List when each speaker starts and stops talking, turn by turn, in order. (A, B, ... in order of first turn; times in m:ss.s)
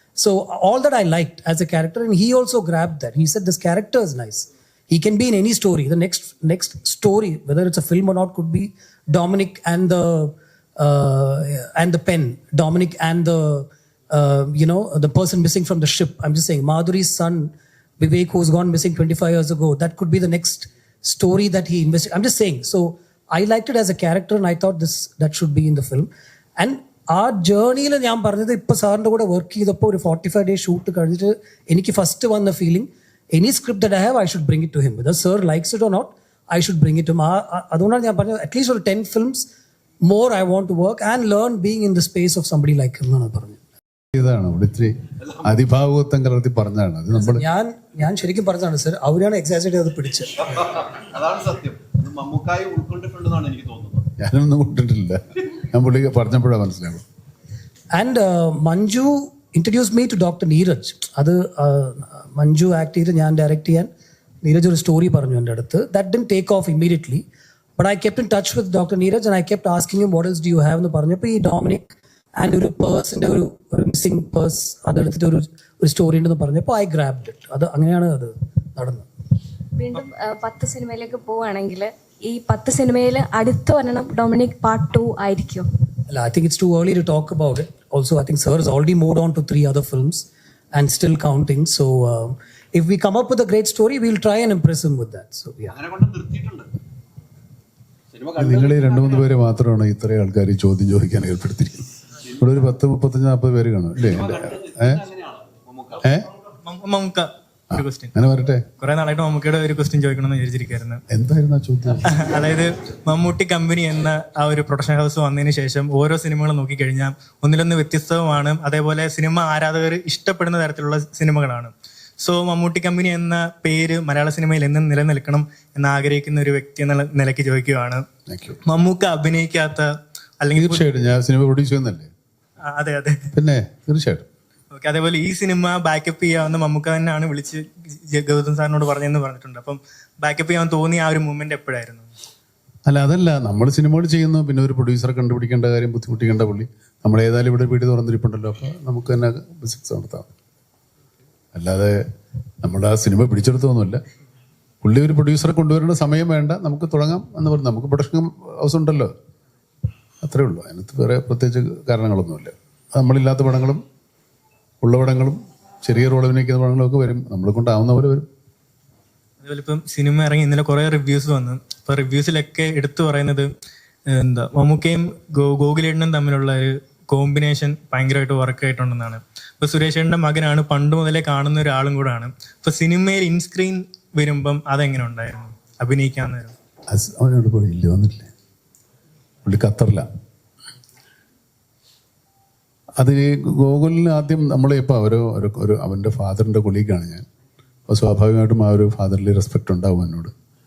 0:00.1-0:39.4 A
0:40.0-0:43.6 A
0:44.1-0:47.4 B
0:47.2-0:50.3 A
0:50.7-0:54.1 C
0:54.2-0:57.0 B
0:57.9-1:03.9 A
1:04.4-1:07.2 A
1:07.8-1:19.0 A
1:19.7-1:25.6 D
1:26.1-1:35.8 A
1:35.7-1:36.7 C
1:38.1-1:39.3 C
1:38.4-1:41.8 B
1:42.4-1:45.0 B
1:44.0-1:46.0 C
1:46.6-1:48.1 E
1:47.7-1:48.6 B
1:48.8-1:51.0 E
1:51.1-1:52.1 B
1:52.1-2:08.0 E
2:08.3-2:08.6 B
2:08.6-2:09.9 E
2:10.4-2:10.8 E
2:10.6-2:12.1 B
2:12.7-2:13.3 E
2:13.3-2:14.2 B
2:14.7-2:22.0 E
2:22.8-2:30.3 B
2:31.5-2:32.0 B
2:32.6-2:34.0 B
2:34.8-2:39.1 B
2:40.2-2:43.8 B
2:44.8-2:48.2 B
2:49.4-2:53.5 E
2:54.1-3:06.5 E
3:06.9-3:08.3 B
3:09.4-3:10.0 B
3:13.0-3:17.2 B
3:17.9-3:20.3 B